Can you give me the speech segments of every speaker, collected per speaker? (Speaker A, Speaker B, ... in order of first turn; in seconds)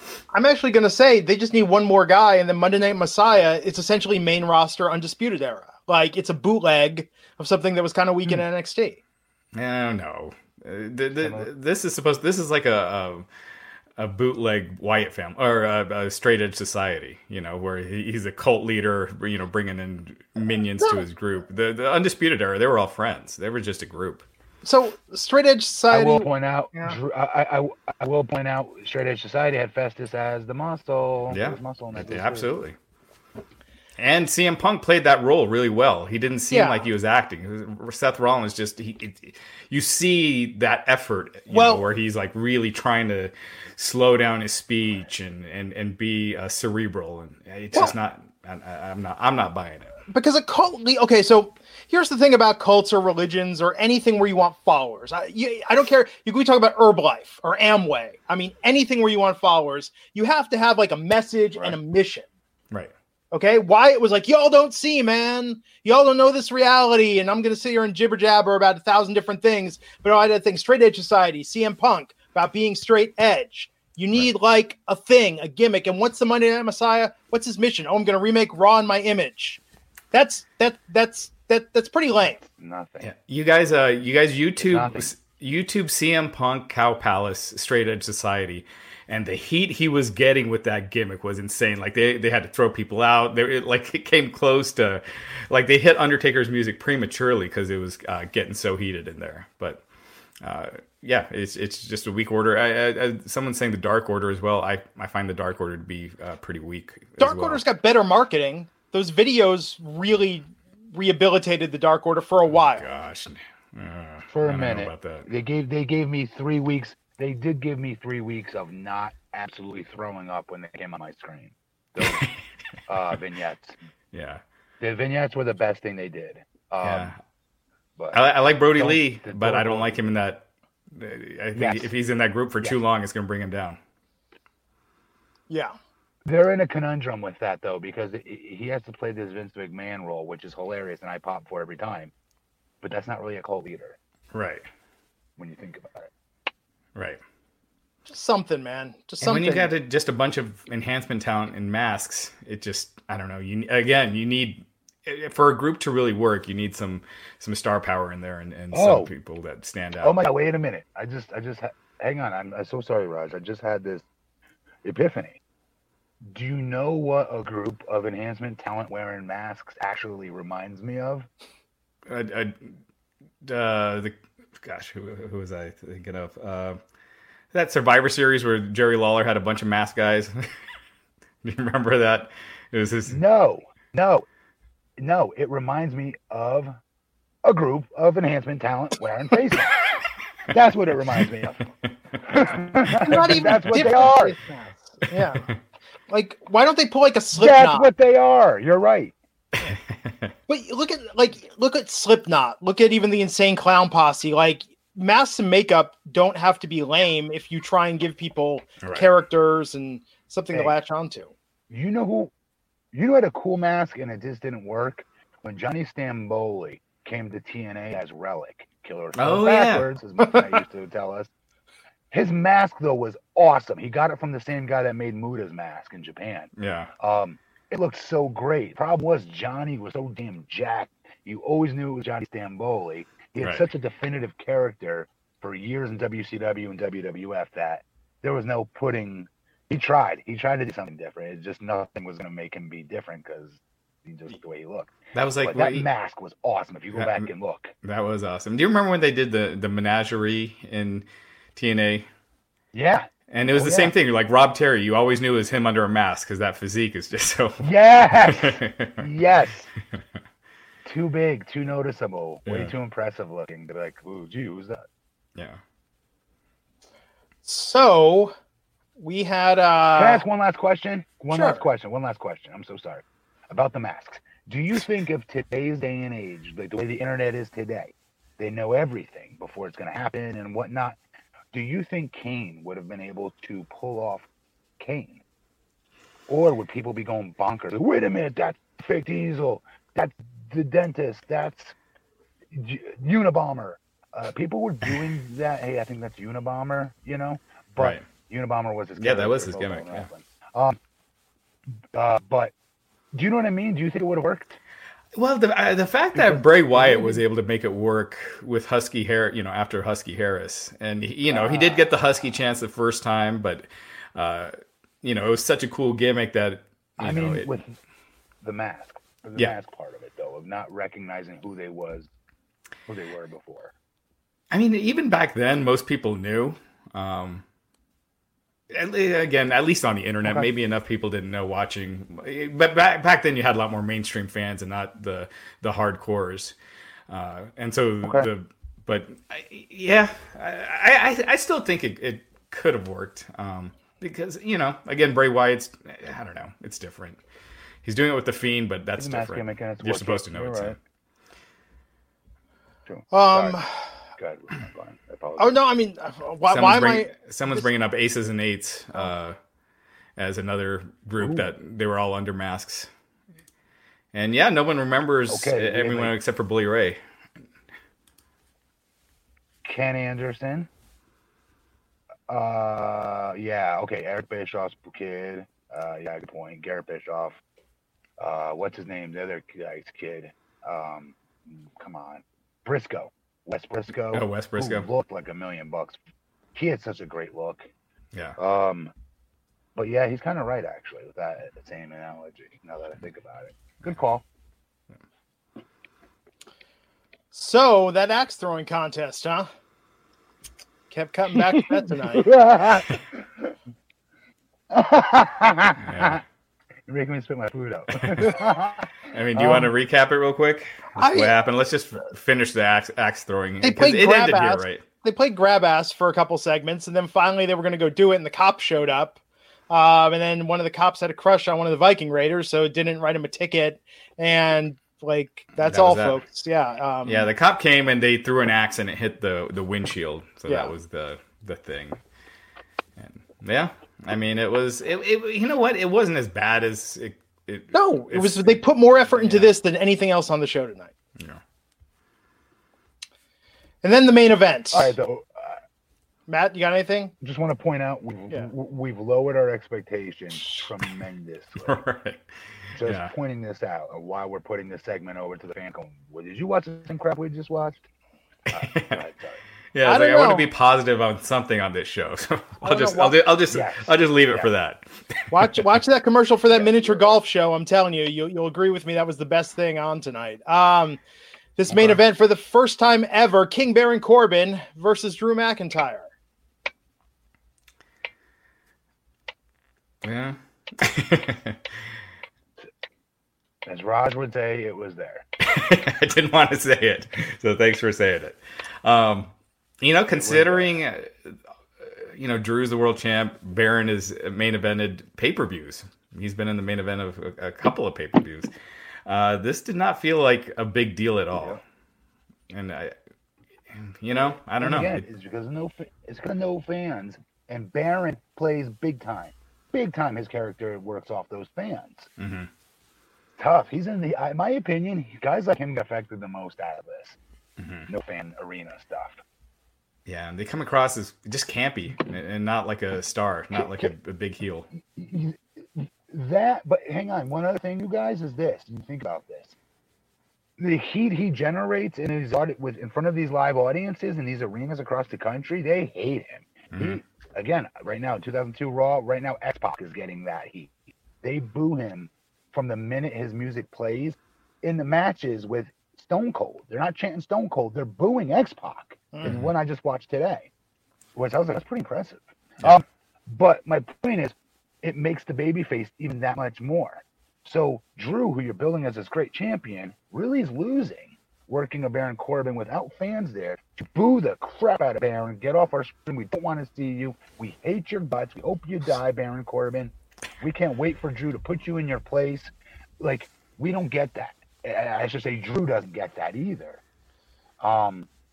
Speaker A: 0.3-9.0, 24.6-27.0, 36.5-36.9, 41.5-41.9, 50.1-62.3, 63.3-79.6, 80.1-82.4, 107.2-112.8, 135.5-135.8, 148.1-149.7, 193.0-195.5, 196.1-197.9, 200.5-211.3, 267.4-268.4, 269.0-270.2, 271.3-271.6, 353.1-353.9, 355.4-357.6, 397.3-399.5, 400.9-402.3, 411.0-411.3, 413.6-419.2, 419.7-427.3, 430.5-430.7, 437.7-440.9, 443.8-444.9, 446.3-447.1, 459.9-460.5, 462.6-463.2, 465.3-471.0, 471.6-476.1
Speaker B: 9.5-13.3, 14.0-24.3, 31.3-32.8, 34.0-50.0, 83.0-99.8, 100.4-107.6, 112.7-115.3, 122.0-122.4, 124.1-124.4, 126.8-127.2, 128.1-133.8, 144.3-144.7, 146.9-147.2, 149.2-160.2, 172.1-172.8, 173.4-176.8, 177.5-180.5, 181.4-183.2, 193.3-194.1, 199.7-200.3, 208.8-209.1, 219.2-219.9, 226.6-226.9, 233.4-233.7, 245.1-245.9, 246.9-247.3, 247.8-251.1, 251.6-252.1, 253.3-259.0, 262.5-262.7, 297.8-298.0, 299.0-300.1, 305.1-317.5, 324.5-327.4, 328.7-336.6, 337.1-347.2, 347.8-350.8, 356.5-359.4, 360.2-362.9, 364.1-367.0, 384.1-384.9, 405.8-406.2, 407.9-408.4, 409.1-414.8, 425.6-426.2, 427.1-432.0, 433.0-439.5, 451.6-453.1, 458.5-459.0, 459.7-465.4, 480.0-481.7, 485.4-498.5, 499.1-501.6, 502.5-502.9, 503.7-505.0, 512.2-512.5, 517.6-517.9, 520.1-524.7, 536.7-537.0, 549.2-549.5
Speaker C: 11.2-11.5, 25.9-32.5, 82.4-83.1, 84.6-85.1, 114.3-122.3, 122.9-123.8, 124.8-127.1, 128.8-130.0, 131.6-131.9, 136.3-142.1, 142.8-144.0, 145.4-146.1, 158.7-159.1, 160.0-164.1, 164.8-165.4, 166.2-171.3, 183.1-184.3, 185.0-186.8, 187.4-189.8, 190.5-191.7, 192.2-194.4, 197.3-199.1, 211.7-212.3, 212.9-221.3, 222.1-247.7, 252.7-253.9, 257.6-259.7, 260.8-264.8, 269.9-281.0, 281.5-284.3, 284.8-285.2, 286.3-291.8, 292.5-300.8, 301.9-302.5, 303.1-304.6, 311.3-311.9, 317.0-317.8, 318.4-322.1, 322.9-323.7, 338.0-338.3, 349.0-350.8, 352.9-353.6, 354.2-355.6, 365.3-366.1, 369.6-370.7, 372.3-377.4, 378.2-386.0, 386.5-387.7, 388.4-388.9, 389.8-394.2, 401.4-403.6, 404.7-406.2, 406.9-409.7, 444.7-445.6, 447.2-451.8, 452.8-457.8, 458.5-459.4, 463.5-464.5, 466.5-467.2, 483.6-485.2, 490.1-490.8, 501.3-501.6, 504.6-512.1, 513.4-517.2, 517.9-519.2, 523.6-523.9, 524.9-529.5, 530.6-550.5, 551.1-576.8, 577.6-578.1